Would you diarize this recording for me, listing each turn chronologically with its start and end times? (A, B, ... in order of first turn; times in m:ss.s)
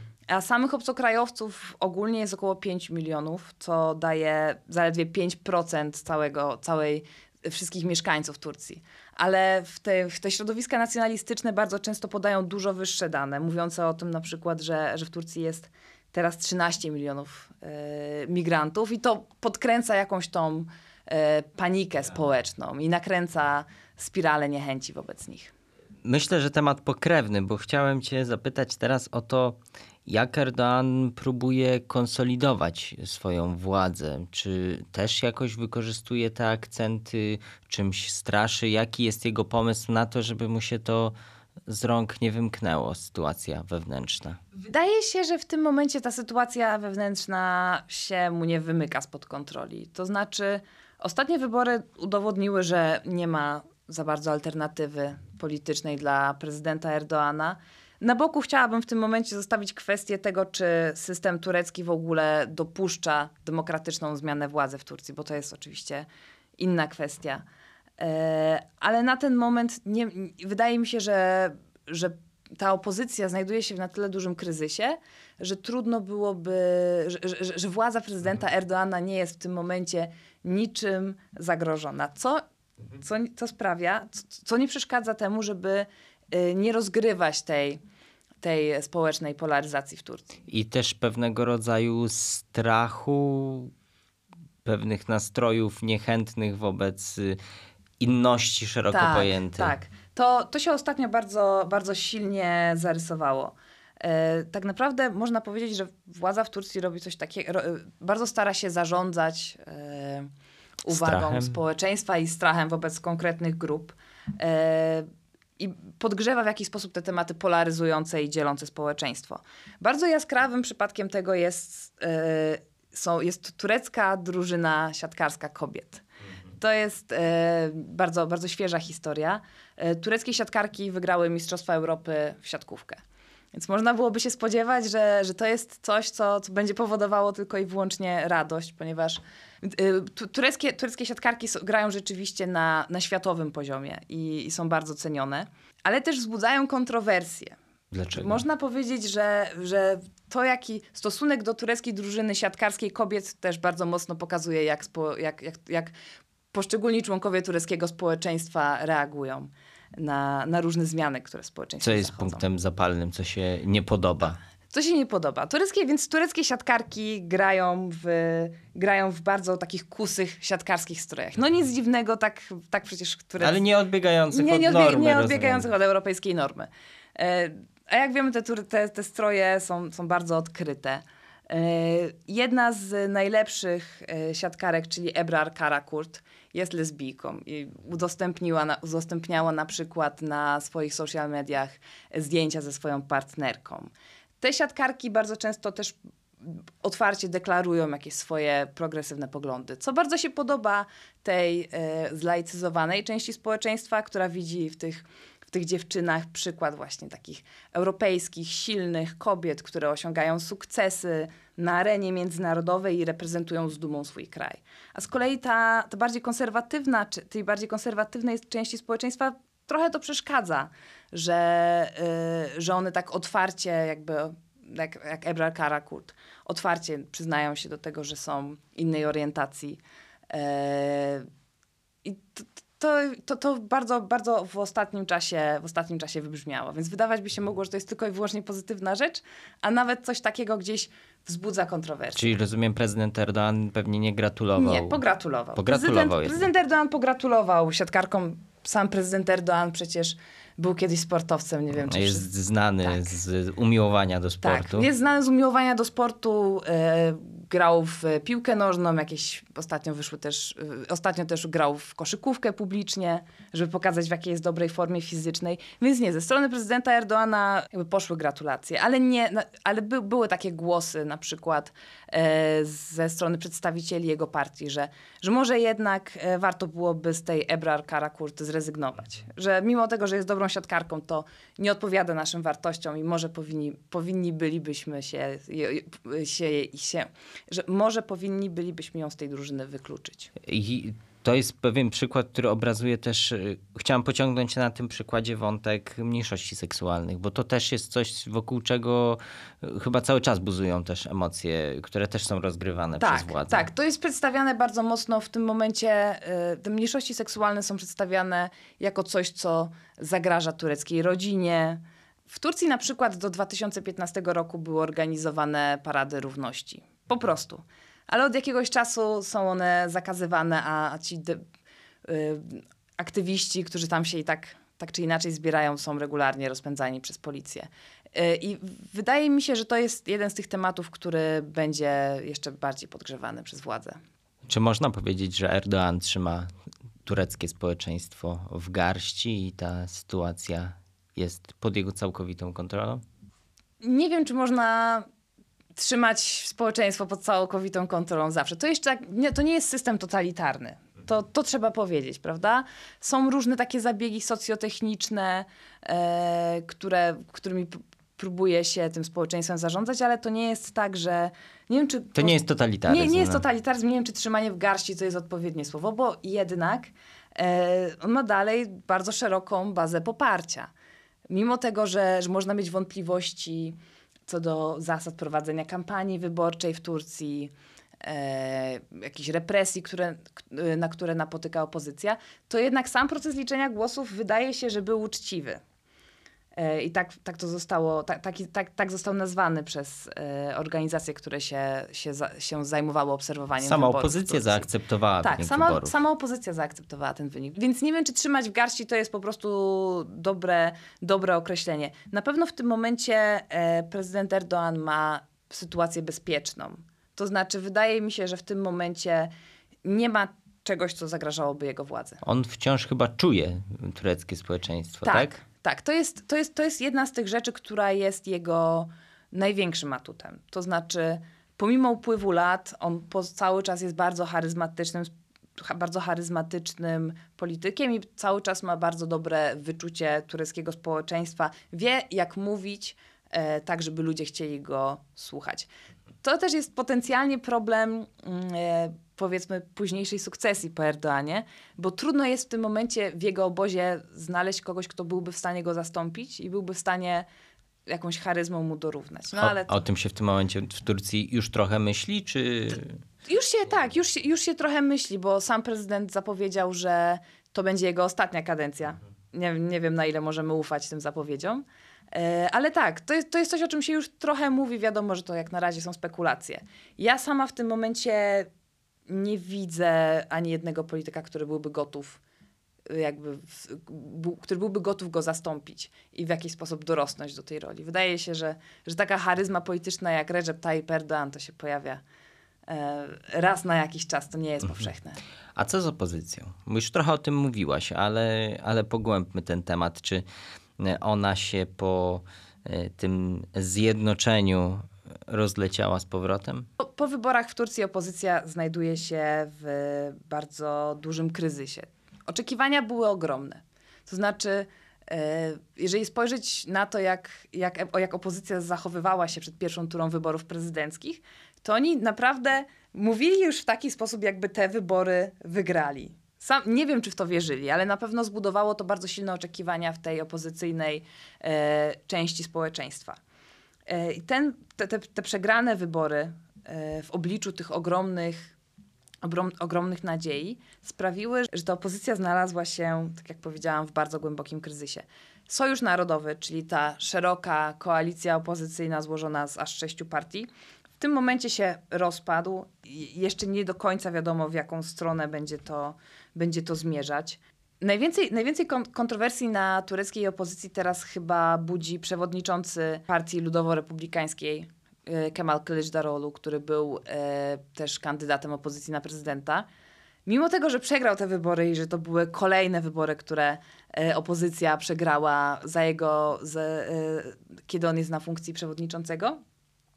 0:00.3-0:25.5 A
0:26.0-0:41.1 B
0:41.7-0:44.4 B
0:44.5-1:06.1 A
1:06.6-1:07.4 A
1:08.0-1:22.4 A
1:23.0-1:27.8 A
1:28.4-1:30.4 A
1:30.5-1:33.7 B
1:34.6-1:37.4 B
1:38.0-1:39.7 B
1:38.9-1:50.3 A
1:50.8-1:55.0 A
1:50.9-1:51.6 B
1:55.6-2:06.0 A
2:06.6-2:13.0 A
2:13.5-2:27.6 A
2:27.9-2:28.4 B
2:28.1-2:35.9 A
2:36.5-2:42.4 A
2:41.8-2:44.4 B
2:44.7-2:53.6 A
2:53.4-2:55.7 B
2:54.3-3:51.3 A
3:52.0-4:02.3 A
4:02.1-4:05.0 B
4:04.6-4:12.2 A
4:05.5-4:06.4 B
4:11.8-4:14.9 B
4:12.8-4:13.1 A
4:14.4-4:50.3 A
4:50.4-5:03.6 B
5:03.0-5:21.4 A
5:22.0-5:34.0 A
5:34.4-5:36.5 B
5:37.0-5:43.0 B
5:43.8-5:45.1 A
5:45.7-6:10.7 A
6:02.1-6:03.4 B
6:11.3-6:25.6 A
6:26.6-6:34.7 A
6:33.6-6:35.9 B
6:35.2-6:49.3 A
6:49.8-6:52.2 A
6:52.2-6:55.4 B
6:55.0-7:15.7 A
7:16.2-7:27.2 A
7:27.8-7:29.8 A
7:29.4-7:33.0 B
7:33.2-7:48.5 A
7:49.1-7:52.2 A
7:52.8-8:02.0 A
8:02.7-8:05.2 A
8:05.6-8:10.2 B
8:10.8-8:16.7 B
8:16.8-8:43.2 A
8:43.9-8:48.5 A
8:49.2-9:19.6 A
9:20.2-9:29.4 A